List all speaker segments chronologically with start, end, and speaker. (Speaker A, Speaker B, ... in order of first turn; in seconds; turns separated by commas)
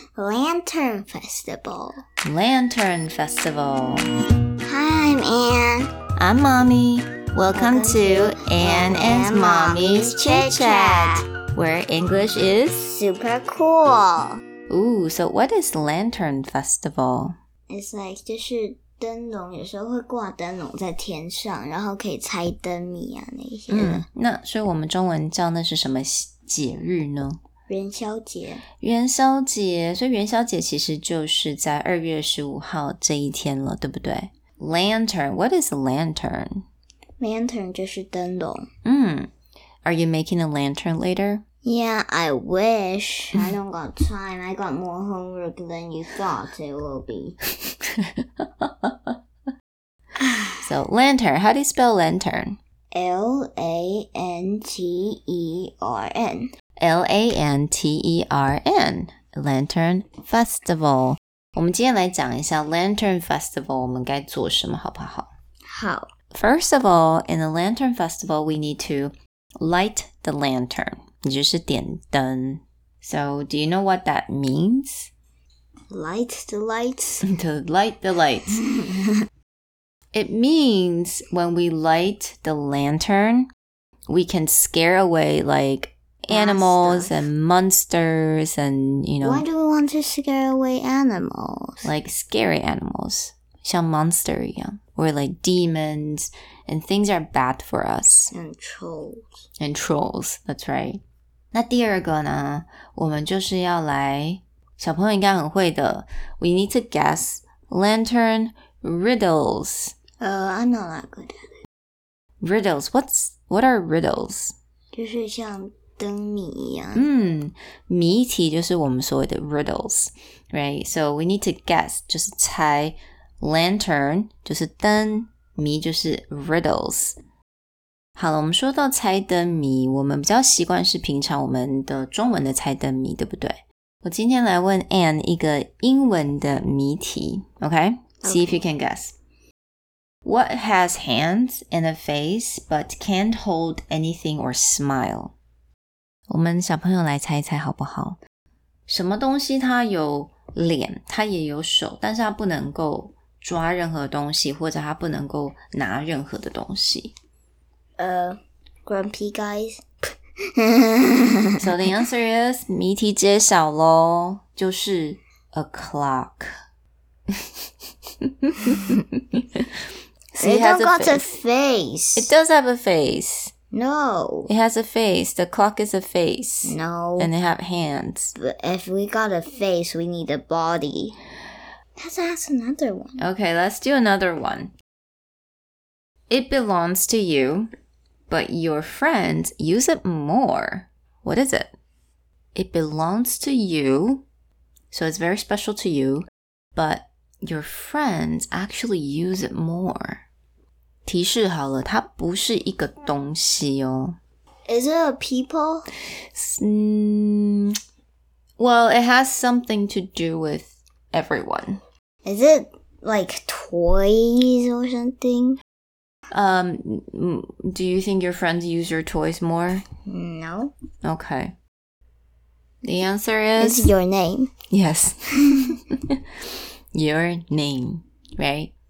Speaker A: 0.1-2.0, Speaker B: 2.2-4.1, Speaker A: 4.6-5.9, Speaker B: 6.2-12.9, Speaker A: 7.5-11.2, Speaker A: 12.9-14.4, Speaker B: 14.7-17.3, Speaker A: 17.7-24.1, Speaker B: 23.7-27.4, Speaker A: 27.7-28.6, Speaker B: 28.8-36.6, Speaker A: 37.2-38.6, Speaker B: 38.8-39.3, Speaker B: 39.8-41.4, Speaker A: 41.6-47.4, Speaker B: 48.0-49.2, Speaker B: 50.6-52.6, Speaker A: 52.9-56.5, Speaker B: 56.8-65.3, Speaker A: 65.7-66.1, Speaker B: 66.3-75.1, Speaker A: 75.9-77.2, Speaker B: 77.2-78.6, Speaker A: 78.7-79.1, Speaker B: 80.1-83.5, Speaker B: 84.1-89.4, Speaker A: 86.3-87.2, Speaker A: 89.2-91.9, Speaker B: 91.8-98.3, Speaker A: 98.3-99.4, Speaker B: 99.6-101.0, Speaker B: 101.5-110.0, Speaker A: 110.2-111.4, Speaker B: 112.4-114.5, Speaker A: 114.9-117.1, Speaker B: 116.9-127.2, Speaker B: 128.2-139.2, Speaker A: 138.2-138.6, Speaker B: 140.2-145.3, Speaker B: 146.3-148.2, Speaker B: 148.9-157.1, Speaker A: 158.0-159.8, Speaker A: 160.5-161.6, Speaker B: 161.6-166.5, Speaker B: 168.2-169.7, Speaker B: 170.3-171.3, Speaker A: 170.4-172.3, Speaker B: 172.2-173.5, Speaker A: 173.7-174.5, Speaker B: 174.4-178.3, Speaker A: 176.6-177.3, Speaker A: 178.4-181.2, Speaker A: 182.0-183.2, Speaker B: 183.2-184.7, Speaker B: 186.3-187.7, Speaker B: 188.3-191.7, Speaker B: 192.5-194.2, Speaker B: 194.9-200.2, Speaker B: 201.0-204.2, Speaker A: 204.7-205.9, Speaker B: 206.3-207.7, Speaker B: 208.6-211.8, Speaker A: 212.2-215.6, Speaker B: 216.3-219.8, Speaker A: 220.1-220.7, Speaker B: 221.0-221.5, Speaker B: 222.8-223.9, Speaker A: 223.6-224.5, Speaker B: 224.7-226.2, Speaker B: 226.9-228.7